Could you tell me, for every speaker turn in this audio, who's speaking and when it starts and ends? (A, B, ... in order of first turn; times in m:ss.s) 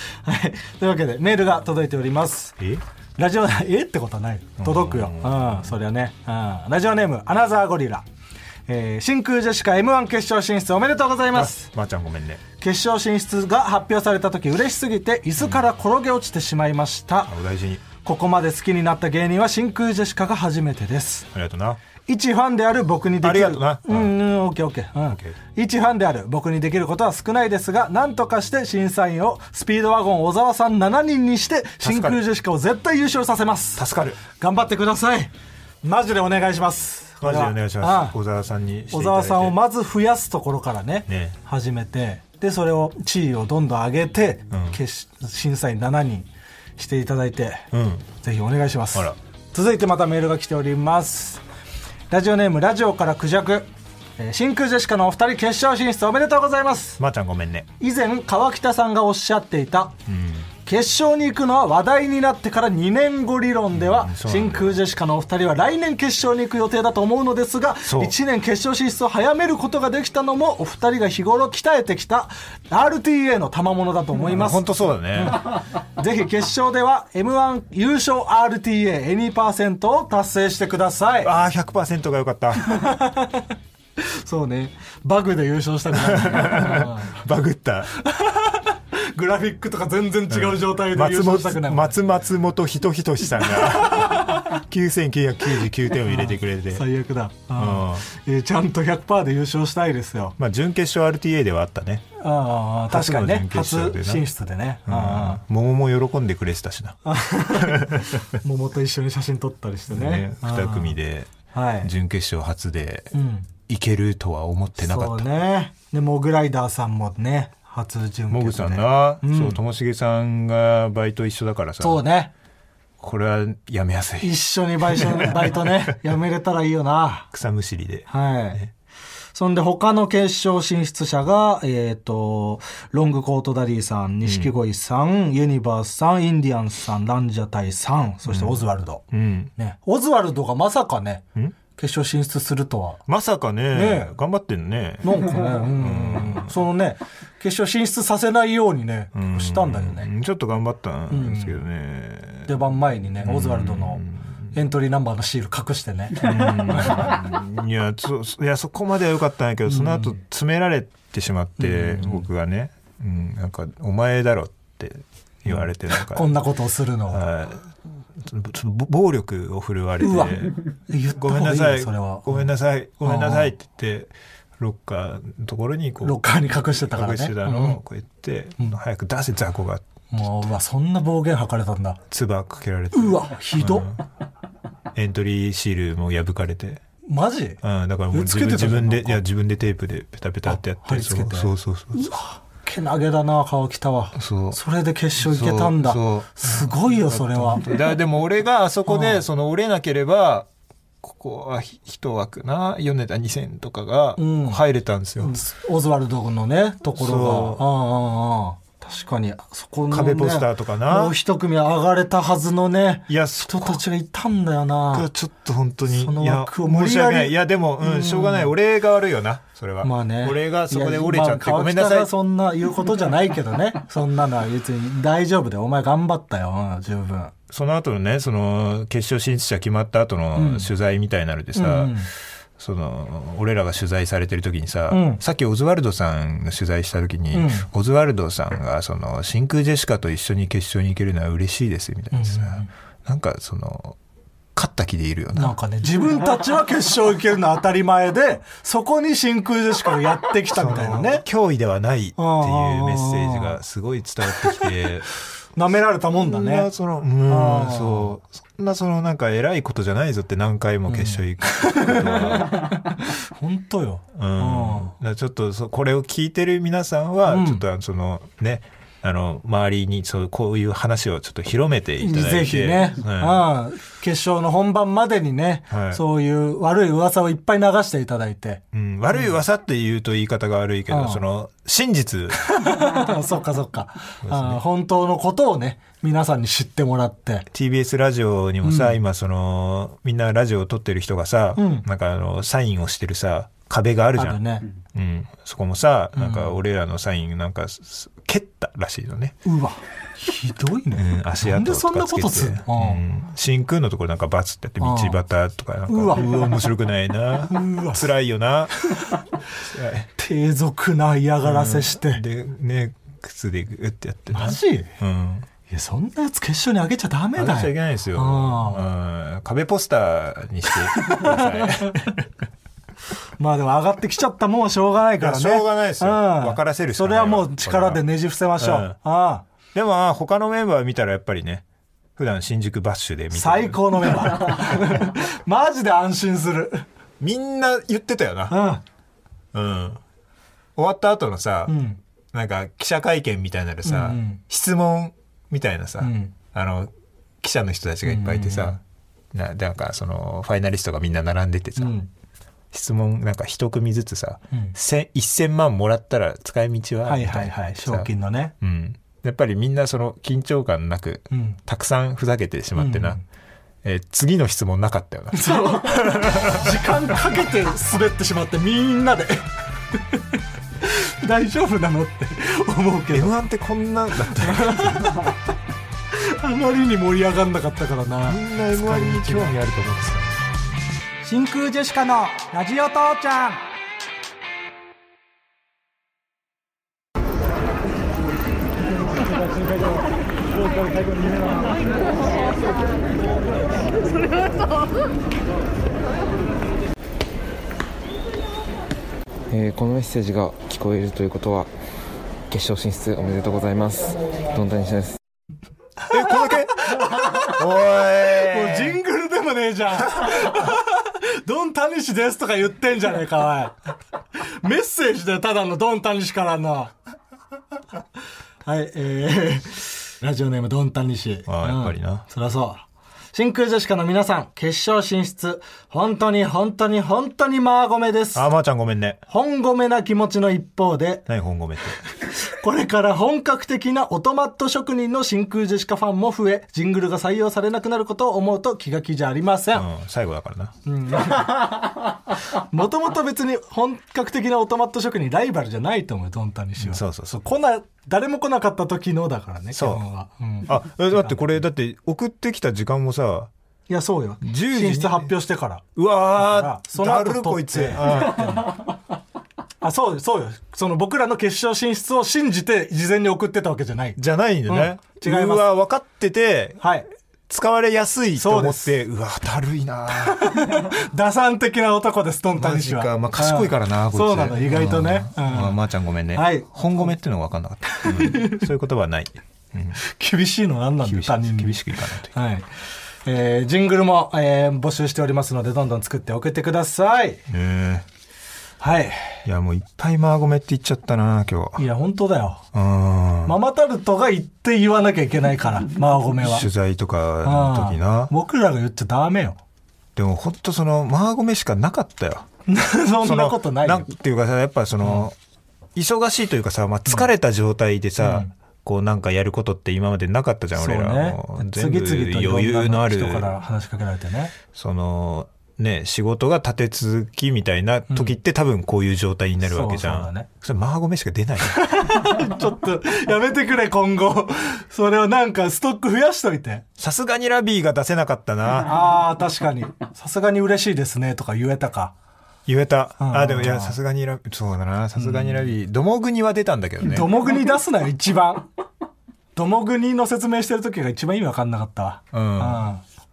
0:00.2-0:02.6 A
0:03.2-0:08.0 A
0:04.6-0:05.7 B
0:08.7-0:11.7 A
0:11.3-0:12.4 B
0:12.6-0:17.3 A
0:17.3-0:17.8 B
0:18.0-0:21.3 A
0:21.3-0:21.8 B
0:22.0-0:35.3 A
0:23.2-0:24.2 B
0:31.8-0:32.2 B
0:33.8-0:34.2 B
0:35.8-0:38.2 A
0:37.2-0:39.6 B
0:38.9-0:51.4 A
0:41.1-0:41.4 B
0:44.5-0:44.8 B
0:47.7-0:48.0 B
0:52.1-0:57.0 A
0:57.0-0:57.7 B
0:57.8-0:59.9 A
1:00.1-1:00.5 B
1:00.6-1:21.3 A
1:03.7-1:04.8 B
1:07.8-1:08.1 B
1:14.2-1:15.4 B
1:21.2-1:22.9 B
1:22.6-1:27.1 A
1:25.9-1:27.9 B
1:28.0-1:32.0 A
1:30.3-1:36.8 B
1:33.6-1:34.4 A
1:36.0-1:40.4 A
1:37.5-1:38.0 B
1:40.4-1:42.0 B
1:42.2-1:45.4 A
1:42.9-1:44.3 B
1:44.8-1:48.1 B
1:47.0-1:51.0 A
1:49.9-1:55.2 B
1:51.5-1:51.9 A
1:53.1-1:53.5 A
1:54.8-1:59.6 A
1:58.3-2:02.0 B
2:01.8-2:02.3 A
2:03.0-2:05.9 B
2:04.2-2:07.3 A
2:07.3-2:08.7 B
2:08.1-2:08.6 A
2:09.3-2:19.0 A
2:14.2-2:14.5 B
2:18.2-2:19.5 B
2:19.6-2:23.0 A
2:23.1-2:26.5 B
2:23.7-2:24.1 A
2:25.0-2:30.1 A
2:29.1-2:32.6 B
2:31.1-2:31.6 A
2:32.4-2:37.2 A
2:33.2-2:34.5 B
2:36.2-2:46.3 B
2:39.7-2:40.1 A
2:41.6-2:42.2 A
2:45.4-2:47.2 A
2:47.1-2:50.6 B
2:50.0-2:52.5 A
2:51.1-2:56.2 B
2:53.0-2:53.5 A
2:56.0-2:57.8 A
2:56.9-3:00.3 B
3:00.1-3:02.0 A
3:02.1-3:04.0 B
3:02.9-3:04.0 A
3:04.9-3:06.8 B
3:07.1-3:07.6 A
3:07.6-3:12.2 B
3:08.1-3:09.2 A
3:10.5-3:17.8 A
3:14.2-3:14.6 B
3:15.2-3:20.5 B
3:18.9-3:19.2 A
3:21.0-3:25.4 B
3:24.2-3:24.6 A
3:25.2-3:35.1 A
3:26.9-3:27.6 B
3:29.9-3:31.2 B
3:33.1-3:33.8 B
3:34.9-3:42.1 B
3:35.9-3:38.5 A
3:39.8-3:47.3 A
3:47.5-3:52.0 B
3:50.4-3:50.7 A
3:51.5-3:52.1 A
3:52.6-4:04.0 B
3:54.9-3:55.2 A
3:57.3-3:57.6 A
4:02.1-4:02.7 A
4:04.5-4:05.5 B
4:05.3-4:11.2 A
4:10.5-4:15.1 B
4:12.2-4:13.6 A
4:15.6-4:16.7 A
4:16.2-4:22.7 B
4:17.2-4:18.1 A
4:20.9-4:24.9 A
4:24.1-4:33.4 B
4:27.3-4:27.6 A
4:32.0-4:38.6 A
4:35.7-4:36.0 B
4:38.7-4:42.4 B
4:40.9-4:41.2 A
4:42.4-4:47.4 A
4:44.2-4:44.6 B
4:47.5-4:59.4 B
4:48.6-4:49.0 A
4:51.6-4:51.8 A
4:54.2-4:54.6 A
4:56.2-4:56.5 A
4:59.4-5:03.0 A
5:00.9-5:08.7 B
5:04.8-5:05.2 A
5:05.9-5:06.5 A
5:07.5-5:08.1 A
5:08.8-5:09.2 A
5:09.6-5:10.1 B
5:10.2-5:12.2 A
5:11.4-5:15.5 B
5:14.3-5:14.9 A
5:15.7-5:18.8 A
5:17.4-5:22.0 B
5:20.8-5:22.1 A
5:23.4-5:29.4 A
5:25.2-5:28.0 B
5:28.6-5:29.0 B
5:29.7-5:31.6 B
5:32.2-5:34.9 B
5:33.3-5:36.8 A
5:37.2-5:38.6 B
5:38.5-5:38.8 A
5:39.5-5:40.0 B
5:40.8-5:41.8 B
5:41.7-5:42.0 A
5:42.3-5:46.9 B
5:43.8-5:44.4 A
5:46.0-5:46.3 A
5:47.4-5:48.8 B
5:48.0-5:48.8 A
5:49.3-5:51.9 B
5:51.8-5:52.1 A
5:52.7-5:58.1 B
5:57.0-5:58.5 A
5:58.6-6:03.2 B
6:01.3-6:01.6 A
6:02.8-6:03.2 A
6:03.8-6:06.8 B
6:05.3-6:10.2 A
6:10.8-6:13.4 A
6:13.1-6:15.2 B
6:14.4-6:15.3 A
6:16.1-6:19.6 A
6:18.2-6:20.4 B
6:21.2-6:23.6 A
6:39.5-6:41.7 C
6:42.5-6:45.2 C
6:46.1-6:49.0 B
6:46.1-6:53.8 A
6:54.4-6:56.9 A
6:58.6-7:08.4 A
7:01.5-7:02.2 B
7:08.3-7:09.2 B
7:09.3-7:11.2 A
7:11.3-7:12.0 B
7:12.5-7:19.9 A
7:19.7-7:20.7 B
7:20.8-7:31.3 A
7:26.8-7:27.4 B
7:29.7-7:30.0 B
7:30.6-7:33.5 B
7:33.9-7:38.8 A
7:34.4-7:35.3 B
7:36.0-7:38.6 B
7:39.8-7:45.7 A
7:44.2-7:46.8 B
7:46.8-7:47.1 A
7:47.5-7:50.8 B
7:48.4-7:48.9 A
7:50.2-7:55.8 A
7:52.5-8:00.0 B
7:56.3-7:56.7 A
7:57.9-7:58.6 A
8:00.0-8:02.7 A
8:01.0-8:02.3 B
8:03.2-8:07.4 A
8:07.5-8:08.0 B
8:08.8-8:09.4 A
8:09.4-8:11.8 B
8:11.8-8:12.6 A
8:12.7-8:13.6 B
8:13.4-8:16.7 A
8:16.4-8:18.3 B
8:17.4-8:19.6 A
8:20.2-8:22.5 B
8:22.7-8:24.1 A
8:23.2-8:25.3 B
8:25.9-8:33.5 B
8:28.2-8:28.5 A
8:30.7-8:34.5 A
8:34.7-8:41.8 B
8:38.1-8:38.3 A
8:39.6-8:40.5 A
8:41.6-8:46.8 A
8:47.0-8:49.1 B
8:48.8-8:52.1 A
8:52.6-8:57.3 B
8:53.2-8:54.0 A
8:55.2-8:55.7 A
8:57.0-8:58.7 A
8:59.5-9:03.0 A
9:02.3-9:02.8 B